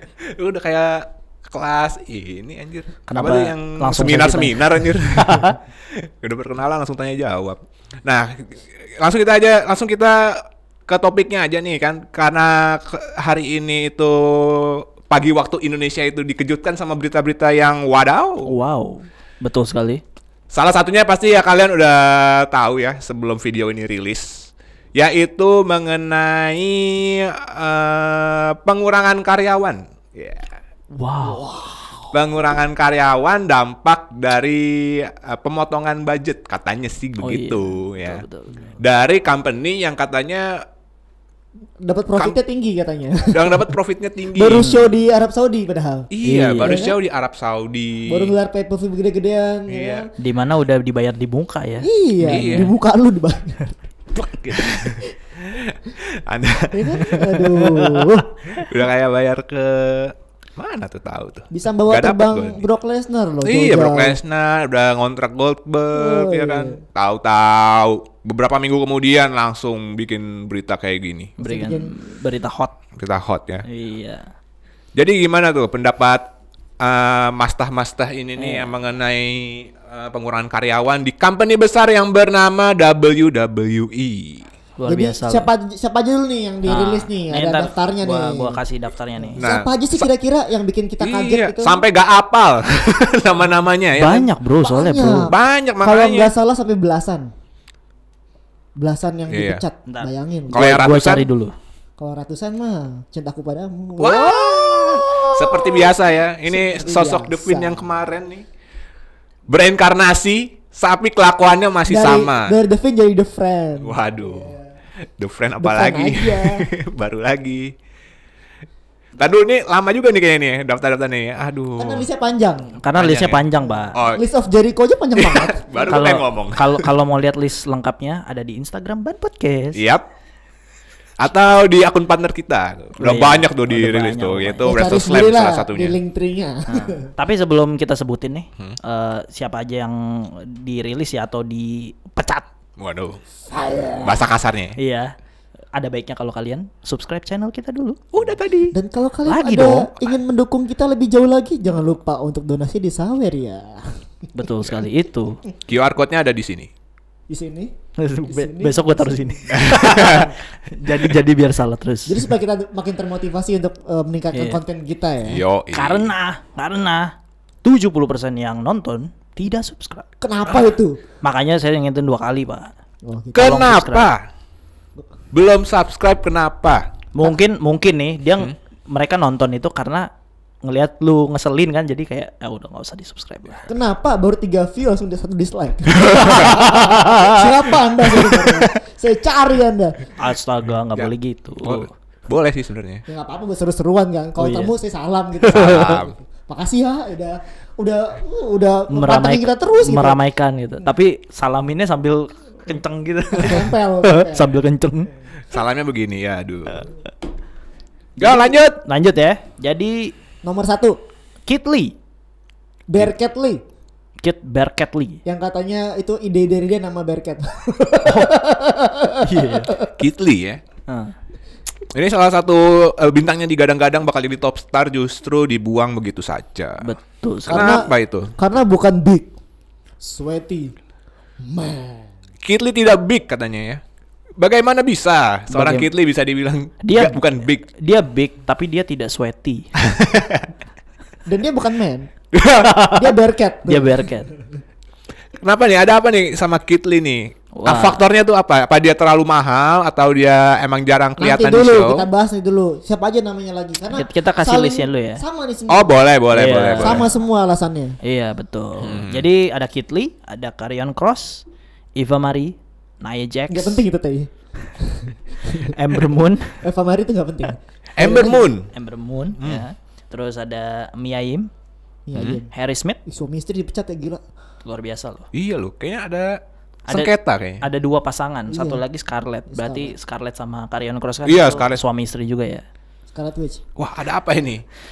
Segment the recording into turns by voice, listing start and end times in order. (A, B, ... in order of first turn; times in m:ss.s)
0:00.2-0:18.5 A
0:03.1-0:05.6 B
0:18.4-0:20.0 B
0:20.5-0:30.5 A
0:30.9-0:32.0 B
0:32.1-0:38.2 A
0:37.2-0:38.8 B
0:38.8-0:40.6 A
0:41.8-0:43.8 C
0:43.2-0:44.7 A
0:44.3-0:47.0 C
0:44.5-0:45.0 B
0:46.1-0:48.3 A
0:46.2-0:46.8 B
0:48.1-0:50.1 C
0:49.7-0:50.1 A
0:50.2-0:52.7 B
0:51.8-0:53.8 C
0:52.2-0:52.7 A
0:54.2-1:02.6 A
0:54.5-0:54.9 C
0:56.7-0:58.5 C
1:01.5-1:04.2 C
1:03.4-1:11.4 A
1:05.9-1:06.8 C
1:11.4-1:12.8 B
1:11.4-1:11.9 C
1:13.0-1:13.6 A
1:13.6-1:14.3 B
1:15.0-1:16.3 A
1:16.8-1:24.5 A
1:18.4-1:18.7 B
1:24.8-1:25.5 B
1:24.9-1:28.6 C
1:26.7-1:29.5 B
1:29.2-1:31.8 C
1:29.4-1:30.0 A
1:31.0-1:34.3 A
1:34.0-1:35.3 B
1:34.6-1:37.3 C
1:35.2-1:36.3 A
1:38.8-1:40.9 C
1:39.3-1:39.6 A
1:39.9-1:41.5 B
1:40.5-1:41.3 A
1:42.0-1:46.0 C
1:44.0-1:48.4 A
1:46.5-1:48.0 C
1:49.5-1:52.5 A
1:51.9-1:54.6 C
1:53.8-1:54.6 A
1:55.2-1:57.7 A
1:55.6-1:56.6 C
1:59.2-2:02.1 A
2:01.8-2:02.8 C
2:02.8-2:04.0 B
2:03.0-2:04.2 A
2:04.1-2:06.1 C
2:05.2-2:06.9 A
2:05.9-2:09.8 B
2:09.8-2:10.0 A
2:11.2-2:16.0 A
2:13.0-2:14.7 B
2:14.6-2:17.1 C
2:16.7-2:22.5 B
2:22.8-2:23.2 A
2:23.5-2:24.3 C
2:24.0-2:24.8 A
2:24.8-2:25.1 B
2:25.7-2:28.0 B
2:28.1-2:28.7 A
2:28.7-2:34.0 C
2:29.3-2:29.9 B
2:34.3-2:35.4 B
2:35.7-2:36.7 A
2:37.3-2:37.7 C
2:38.0-2:42.2 B
2:38.2-2:40.4 C
2:39.5-2:40.3 A
2:42.1-2:45.4 C
2:44.3-2:44.6 B
2:45.2-2:46.1 A
2:45.7-2:50.1 B
2:50.2-2:51.0 C
2:51.2-2:52.7 B
2:53.0-2:53.7 C
2:53.4-2:54.2 A
2:53.4-2:54.1 B
2:55.3-2:56.9 A
2:57.1-3:00.1 B
3:00.6-3:03.7 B
3:03.7-3:10.1 C
3:06.0-3:06.6 A
3:06.1-3:07.5 B
3:10.2-3:11.9 B
3:11.6-3:13.0 A
3:13.1-3:20.2 C
3:14.4-3:14.7 B
3:15.5-3:16.0 B
3:15.5-3:16.2 A
3:18.9-3:25.1 B
3:23.3-3:24.5 C
3:25.5-3:26.9 A
3:28.2-3:30.1 B
3:28.2-3:28.8 A
3:30.4-3:31.0 C
3:31.5-3:32.0 B
3:32.9-3:33.6 C
3:34.2-3:35.2 B
3:35.3-3:39.9 C
3:38.0-3:38.3 B
3:39.2-3:39.7 B
3:40.0-3:40.6 A
3:40.9-3:41.1 B
3:41.9-3:46.8 A
3:46.8-3:47.8 B
3:47.5-3:48.4 A
3:47.5-3:49.3 C
3:50.0-3:50.8 C
3:51.4-3:52.1 C
3:52.4-3:53.8 A
3:54.4-3:57.6 A
3:55.5-3:55.9 B
3:56.8-3:59.7 B
3:59.8-4:00.5 A
4:01.3-4:02.1 C
4:02.3-4:03.1 A
4:02.9-4:04.1 C
4:03.7-4:04.3 B
4:05.4-4:12.1 A
4:07.6-4:08.0 B
4:11.2-4:16.0 C
4:13.9-4:15.2 B
4:15.7-4:17.1 A
4:16.3-4:17.0 B
4:16.8-4:18.0 C
4:18.0-4:21.4 B
4:18.8-4:19.2 A
4:22.0-4:23.8 B
4:23.5-4:25.8 C
4:25.6-4:26.6 B
4:26.6-4:28.5 C
4:28.0-4:28.7 A
4:28.7-4:31.5 B
4:29.4-4:29.6 A
4:32.1-4:32.5 C
4:32.1-4:32.4 A
4:32.5-4:33.0 B
4:33.1-4:34.2 C
4:34.6-4:35.3 B
4:35.3-4:37.6 A
4:36.9-4:42.6 B
4:38.5-4:38.8 C
4:39.5-4:40.0 C
4:41.2-4:41.8 A
4:43.1-4:43.6 C
4:43.8-4:44.6 A